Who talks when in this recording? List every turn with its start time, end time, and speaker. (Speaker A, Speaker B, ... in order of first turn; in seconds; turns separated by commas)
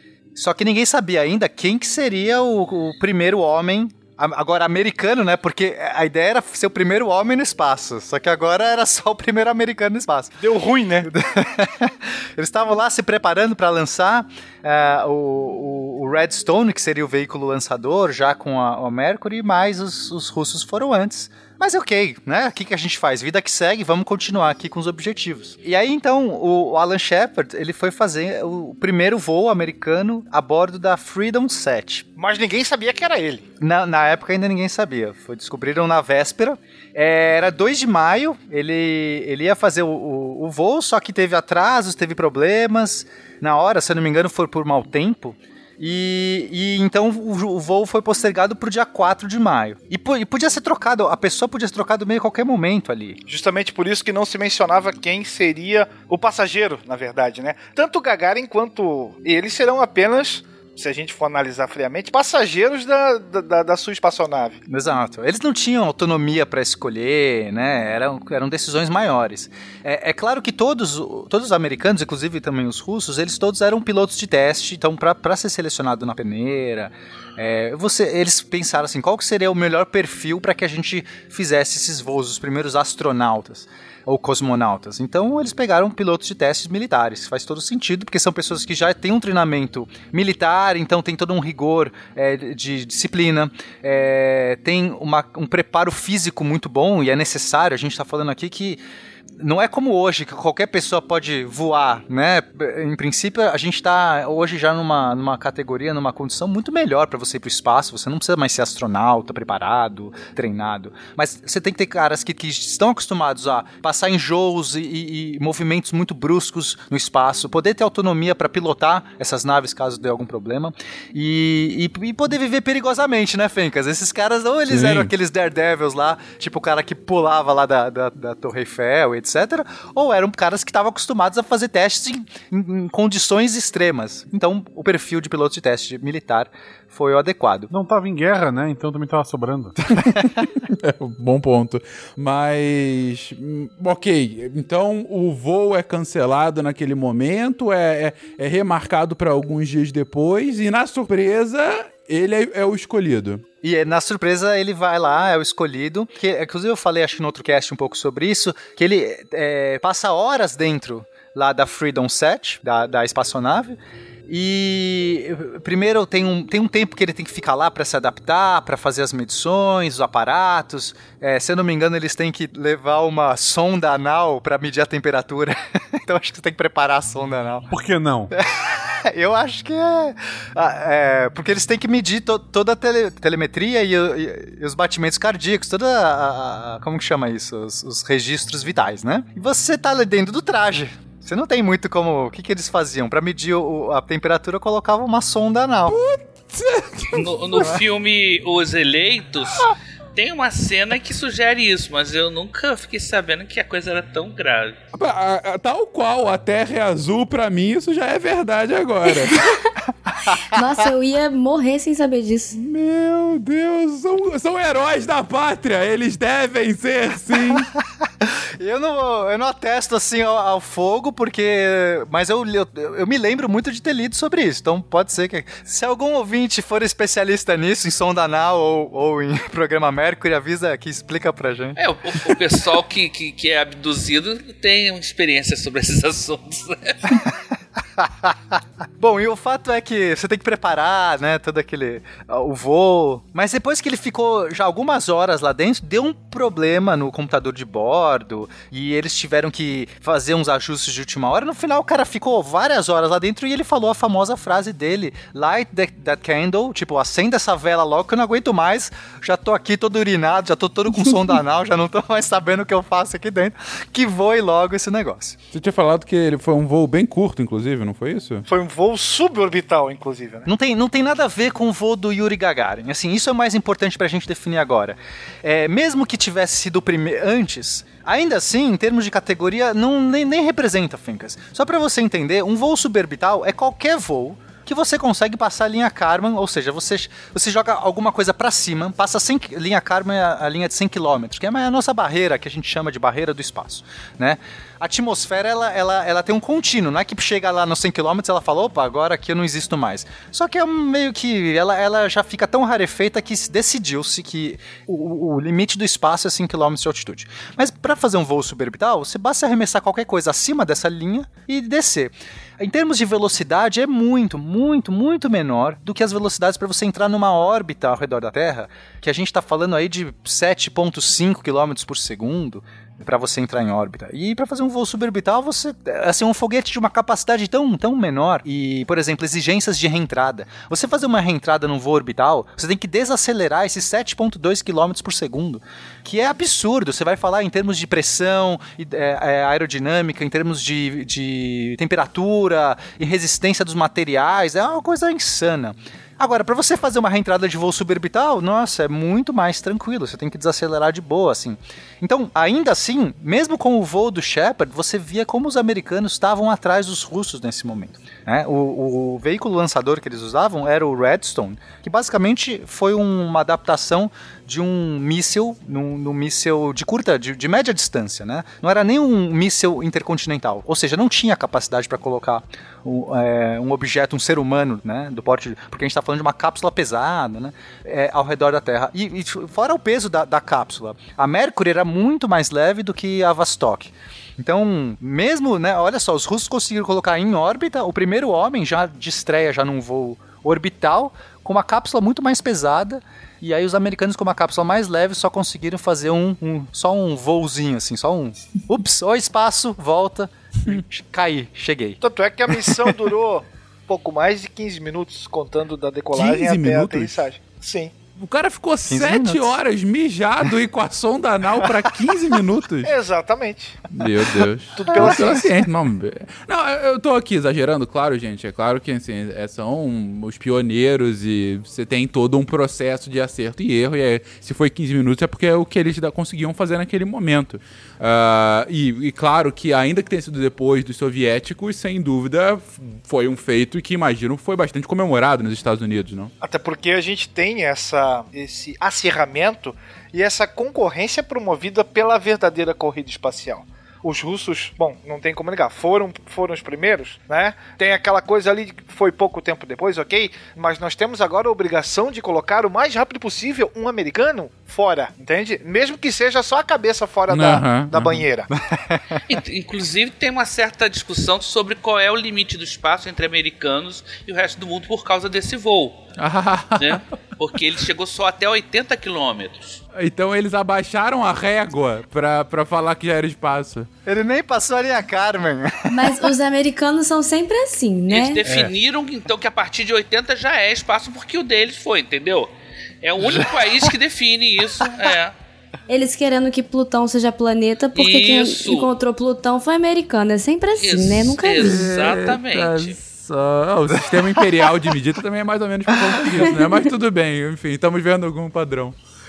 Speaker A: 0.3-10.4, Speaker B: 10.4-11.1, Speaker A: 11.1-32.1, Speaker B: 32.2-33.5, Speaker A: 33.6-53.2, Speaker B: 53.3-64.6, Speaker A: 64.7-98.8, Speaker A: 99.4-137.7, Speaker C: 124.7-125.1, Speaker D: 137.7-139.8, Speaker C: 140.8-153.4, Speaker A: 153.6-177.7, Speaker D: 177.7-178.3, Speaker A: 178.3-196.0, Speaker C: 195.9-197.6, Speaker E: 197.1-204.8, Speaker C: 204.9-209.4, Speaker F: 210.5-212.6, Speaker C: 212.5-217.7, Speaker A: 218.2-232.3, Speaker E: 231.8-237.1, Speaker A: 238.0-265.4, Speaker C: 265.5-268.4, Speaker B: 268.5-270.5, Speaker A: 270.5-402.9, Speaker B: 402.0-408.0, Speaker C: 406.1-407.2, Speaker C: 408.2-412.9, Speaker A: 408.9-409.6, Speaker B: 412.8-413.8, Speaker C: 413.9-436.3, Speaker B: 414.8-415.5, Speaker A: 414.9-415.3, Speaker B: 436.4-458.5, Speaker C: 457.3-458.3, Speaker A: 458.6-459.2, Speaker E: 459.3-466.1, Speaker C: 466.2-467.0, Speaker E: 466.8-469.8, Speaker C: 470.0-473.9, Speaker A: 474.1-475.9, Speaker F: 475.9-478.4, Speaker E: 478.1-482.5, Speaker E: 483.0-485.3, Speaker F: 485.9-491.8, Speaker E: 487.9-488.9, Speaker E: 490.8-493.0, Speaker C: 491.6-499.0, Speaker A: 493.9-494.5, Speaker A: 495.9-496.6